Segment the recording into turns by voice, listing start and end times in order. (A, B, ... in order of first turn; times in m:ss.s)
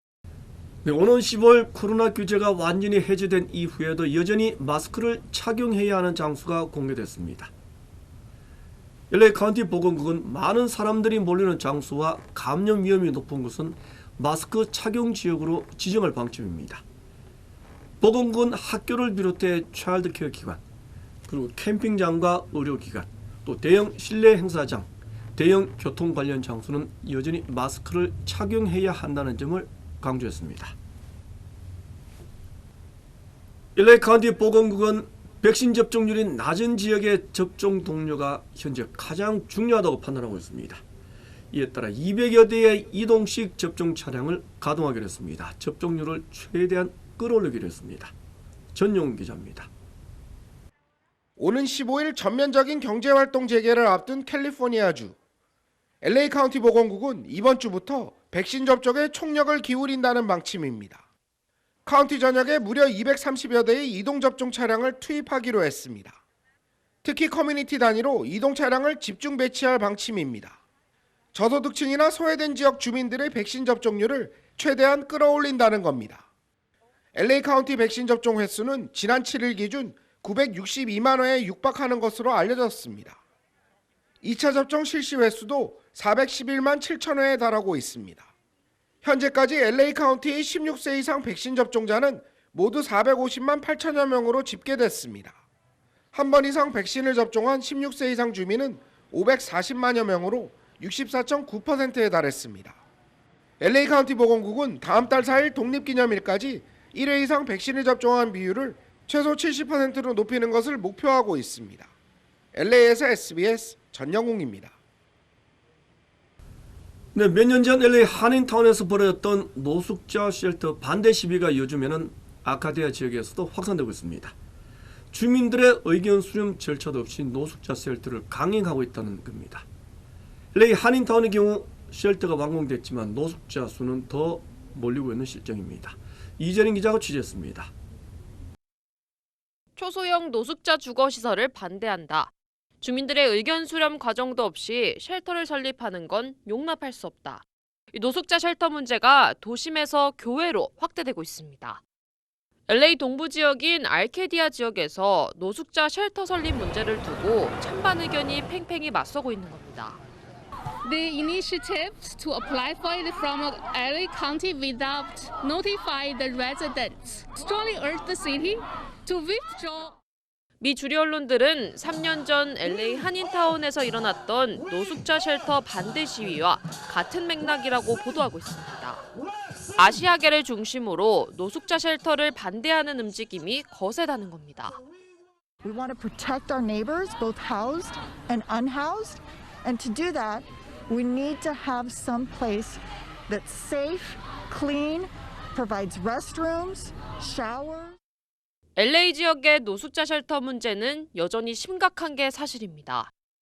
0:00.8-0:07.5 A
0:09.1-0:16.8 A
0:18.0-0:20.6 A
0:21.3-0:30.7 A
0:33.8-0:40.8 A
0:41.5-0:48.1 A
0:48.7-0:49.7 A
0:51.4-0:55.2 B
0:56.0-1:01.0 B
1:01.8-1:06.2 B
1:07.0-1:10.6 B
1:11.3-1:16.3 B
1:17.1-1:23.2 B
1:24.2-1:28.3 B
1:29.0-1:35.4 B
1:36.1-1:42.8 B
1:43.6-1:51.9 B
1:52.5-1:54.8 B
1:57.1-2:04.3 A
2:05.1-2:09.6 A
2:10.5-2:17.7 A
2:19.8-2:31.8 C
2:32.7-2:40.0 C
2:40.8-2:50.0 D
2:50.6-2:59.0 C
2:59.8-3:04.8 C
3:05.6-3:18.0 E
3:18.8-3:23.1 C